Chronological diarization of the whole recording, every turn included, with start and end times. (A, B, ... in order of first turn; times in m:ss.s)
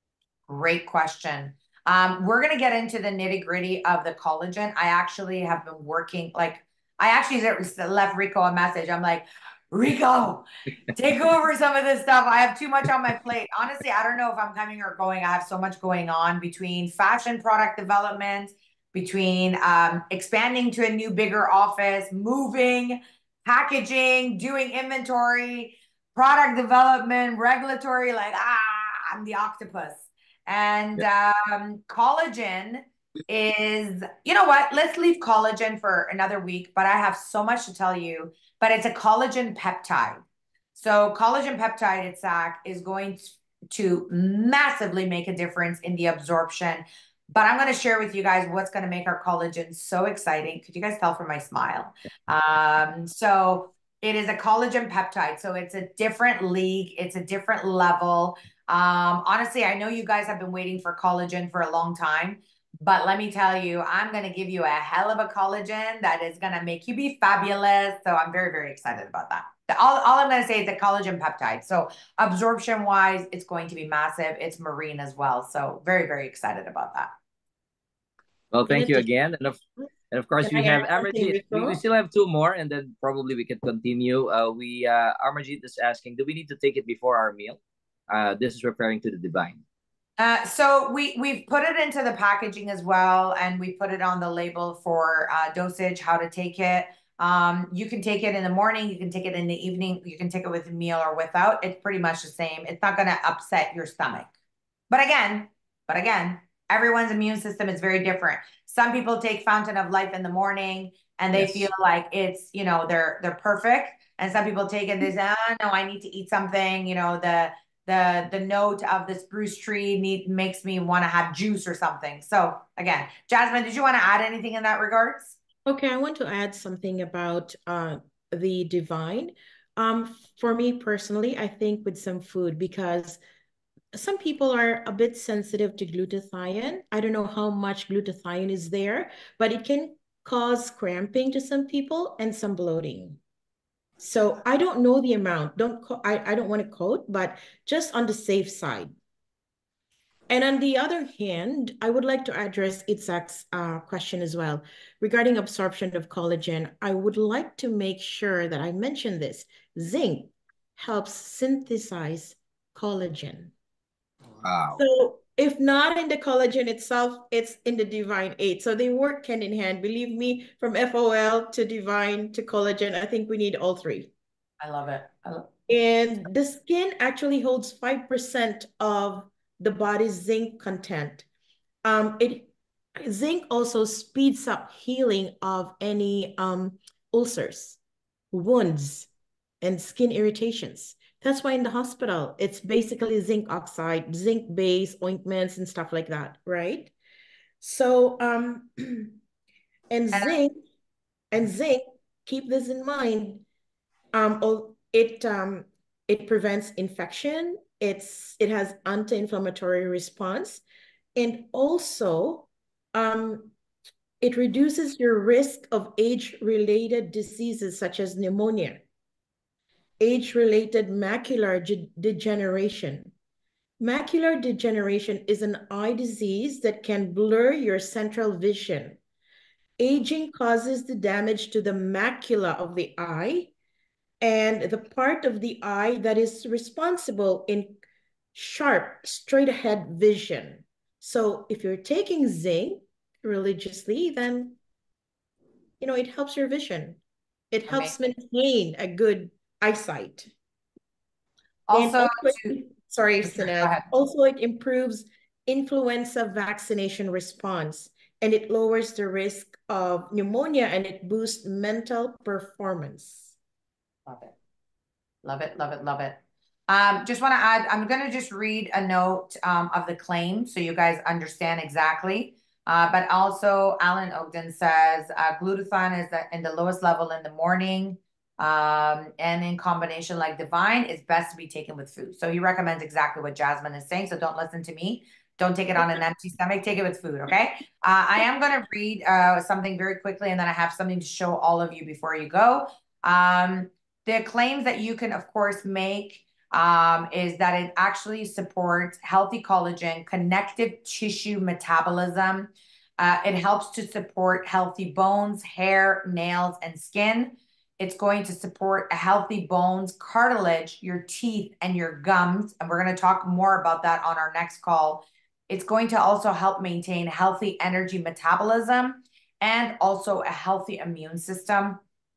0:00.5-0:40.2 A
0:40.8-1:17.1 A
1:18.5-1:19.6 B
1:18.7-1:19.1 C
1:20.1-1:29.6 B
1:20.4-1:21.8 C
1:30.2-1:44.3 A
1:44.9-2:05.4 A
1:51.3-1:51.7 B
2:05.7-2:13.2 C
2:13.9-2:23.2 C
2:24.0-2:29.0 C
2:30.3-2:43.5 C
2:44.4-2:44.8 B
2:44.8-2:54.1 C
2:54.6-2:55.5 A
2:55.7-3:01.3 C
3:01.8-3:07.8 C
3:08.3-3:09.1 C
3:09.6-3:16.9 C
3:17.6-3:19.2 C
3:19.9-3:20.6 C
3:21.3-3:23.4 C
3:24.1-3:30.6 C
3:31.2-3:33.5 C
3:34.2-3:38.8 C
3:40.0-3:43.1 C
3:43.8-3:49.0 C
3:49.8-3:53.5 C
3:54.2-3:57.8 C
3:58.3-4:04.6 C
4:05.8-4:07.0 C
4:07.5-4:10.3 C
4:07.7-4:08.0 A
4:11.7-4:12.6 A
4:11.7-4:23.3 C
4:13.3-4:13.9 A
4:24.1-4:24.3 A
4:25.2-4:26.2 A
4:26.7-5:21.8 A